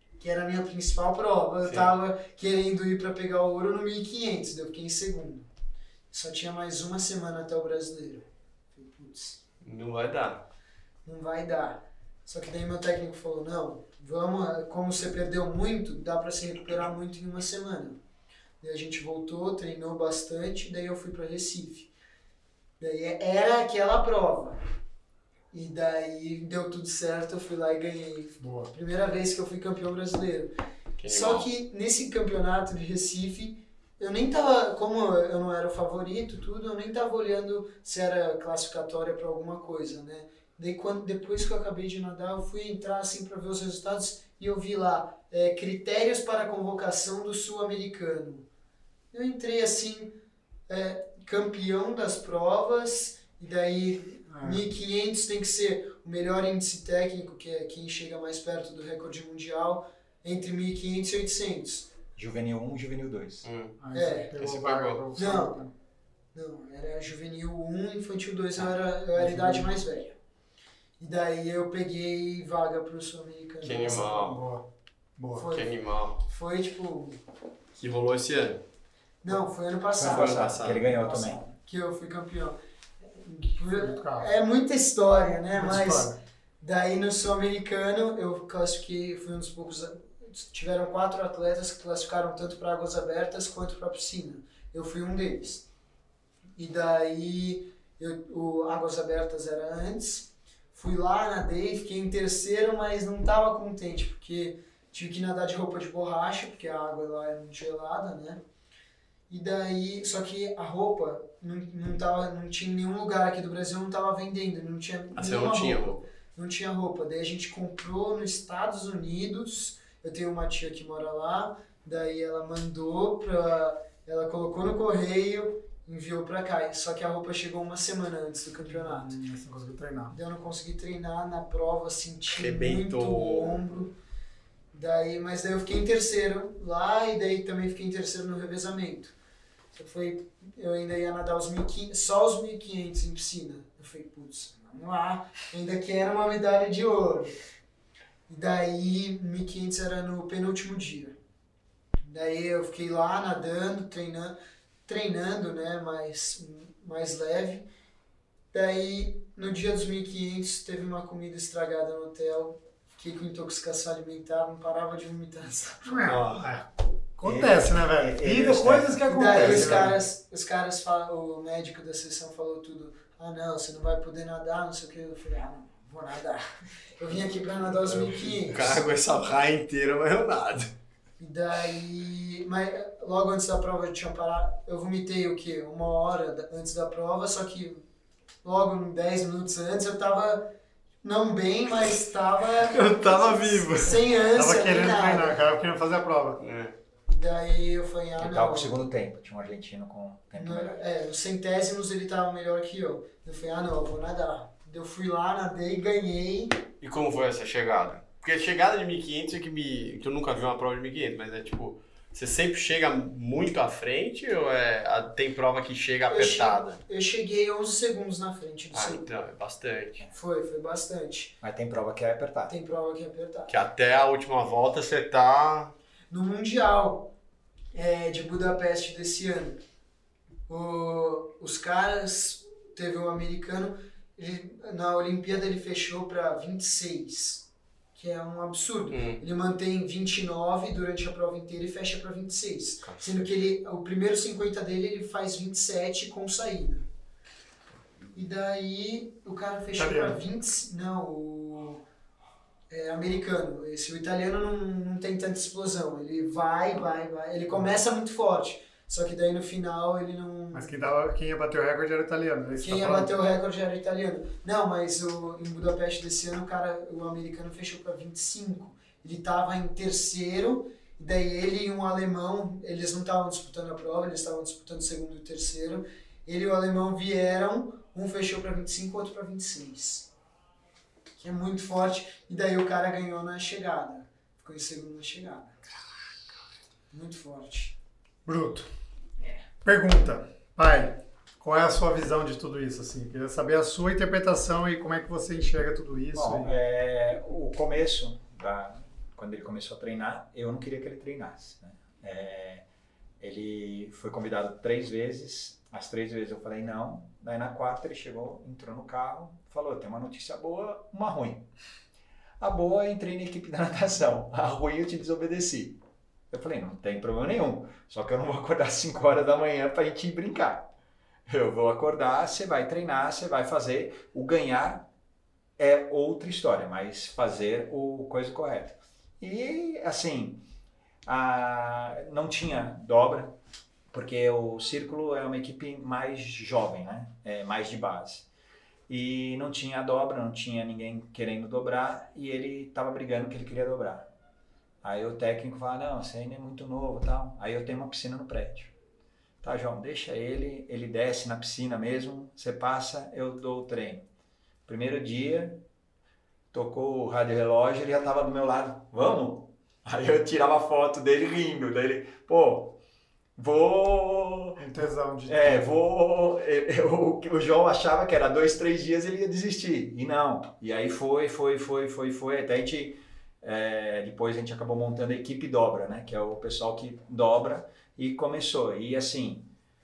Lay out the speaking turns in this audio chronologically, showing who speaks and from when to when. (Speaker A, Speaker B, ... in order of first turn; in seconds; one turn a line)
Speaker A: 0.2-5.5
Speaker B: 1.6-1.9
Speaker A: 6.1-9.4
Speaker B: 9.6-10.5
Speaker A: 11.0-18.0
Speaker A: 18.6-21.9
Speaker A: 22.8-24.6
Speaker A: 25.5-30.5
Speaker C: 28.4-28.7
Speaker B: 31.0-31.5
Speaker A: 31.1-48.5
Speaker A: 49.1-50.1
Speaker A: 50.7-61.9
Speaker C: 54.3-54.6
Speaker D: 62.1-63.5
Speaker B: 63.4-63.8
Speaker C: 63.8-65.7
Speaker A: 63.9-64.3
Speaker B: 64.3-65.0
Speaker A: 65.2-65.6
Speaker A: 66.3-70.1
Speaker C: 69.1-69.8
Speaker A: 71.0-74.1
Speaker B: 73.6-74.4
Speaker C: 73.7-74.7
Speaker C: 75.2-75.5
Speaker A: 75.3-77.2
Speaker B: 75.4-76.2
Speaker B: 77.7-78.6
Speaker A: 79.2-95.7
Speaker B: 80.0-80.9
Speaker D: 80.0-81.5
Speaker C: 83.7-84.3
Speaker C: 85.5-86.2
Speaker A: 96.5-108.4
Speaker A: 109.3-129.1
Speaker B: 115.2-116.0
Speaker C: 128.7-130.2
Speaker A: 130.1-133.9
Speaker B: 132.3-133.6
Speaker A: 134.7-139.1
Speaker A: 139.7-147.3
Speaker A: 148.3-151.2
Speaker A: 152.0-157.7
Speaker A: 158.5-166.0
Speaker C: 165.8-169.9
Speaker B: 166.1-166.5
Speaker D: 167.2-169.9
Speaker A: 169.1-176.4
Speaker A: 177.0-178.8
Speaker B: 177.8-180.7
Speaker A: 181.2-187.8
Speaker A: 188.4-190.5
Speaker A: 191.0-195.4
Speaker B: 192.6-194.0
Speaker C: 194.3-196.4
Speaker B: 196.4-196.7
Speaker A: 197.1-198.8
Speaker D: 198.2-200.8
Speaker A: 200.3-206.6
Speaker B: 206.8-216.8
Speaker A: 216.1-219.1
Speaker B: 218.7-220.1
Speaker A: 220.1-221.3
Speaker D: 221.4-222.5
Speaker A: 222.5-223.5
Speaker B: 223.5-225.7
Speaker A: 226.1-227.1
Speaker A: 227.7-229.6
Speaker A: 230.5-246.8
Speaker B: 238.9-239.2
Speaker B: 242.8-243.3
Speaker A: 248.1-251.8
Speaker C: 249.7-250.2
Speaker A: 252.7-260.7
Speaker C: 260.5-263.1
Speaker A: 262.6-280.1
Speaker A: 281.2-285.6
Speaker A: 286.9-287.8
Speaker C: 288.2-288.7
Speaker A: 289.2-289.4
Speaker C: 289.6-296.5
Speaker D: 296.1-302.6
Speaker D: 303.2-311.4
Speaker D: 312.4-315.8
Speaker D: 316.3-320.7
Speaker D: 321.3-324.9
Speaker D: 325.6-330.4
Speaker D: 331.0-333.4
Speaker D: 333.9-338.3
Speaker D: 338.9-344.1
Speaker D: 344.8-348.7
Speaker D: 349.4-354.1
Speaker D: 354.7-355.6
Speaker D: 356.5-362.8
Speaker D: 363.4-379.5
Speaker C: 364.6-365.6